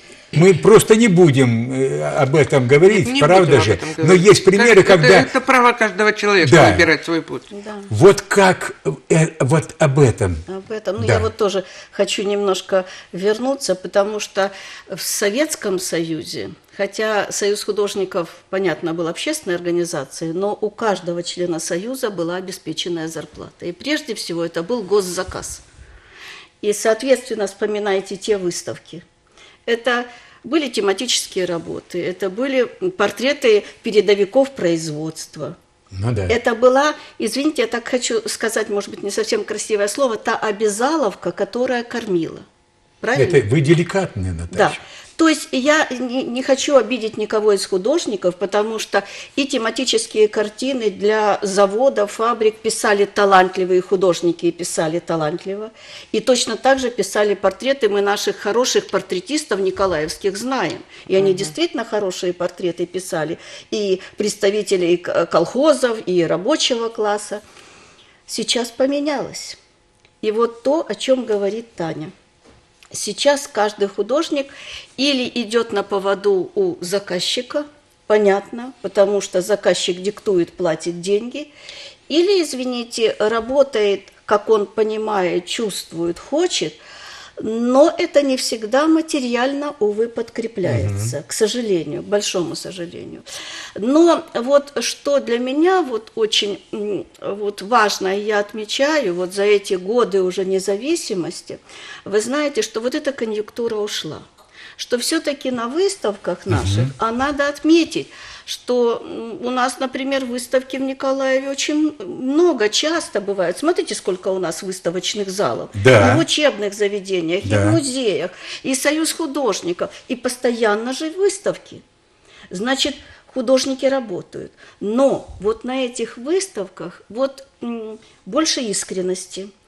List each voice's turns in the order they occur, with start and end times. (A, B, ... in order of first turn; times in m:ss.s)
0:00.3-0:05.3 A
0:02.8-0:07.5 B
0:06.4-0:06.9 A
0:07.5-0:07.9 C
0:07.9-0:10.4 A
0:10.5-0:25.6 C
0:11.0-0:11.3 A
0:26.6-0:29.0 C
0:29.6-0:35.6 C
0:35.9-0:36.4 A
0:36.3-0:42.4 C
0:43.0-0:43.4 C
0:43.1-0:44.8 A
0:44.5-1:07.4 C
1:01.2-1:01.5 B
1:08.3-1:09.6 C
1:10.2-1:12.1 C
1:12.9-1:21.5 C
1:22.1-1:26.8 C
1:27.4-1:33.2 C
1:30.6-1:31.1 A
1:33.8-2:01.8 C
1:46.5-1:46.9 A
1:55.8-1:56.2 A
1:57.4-1:57.8 A
2:02.5-2:09.5 C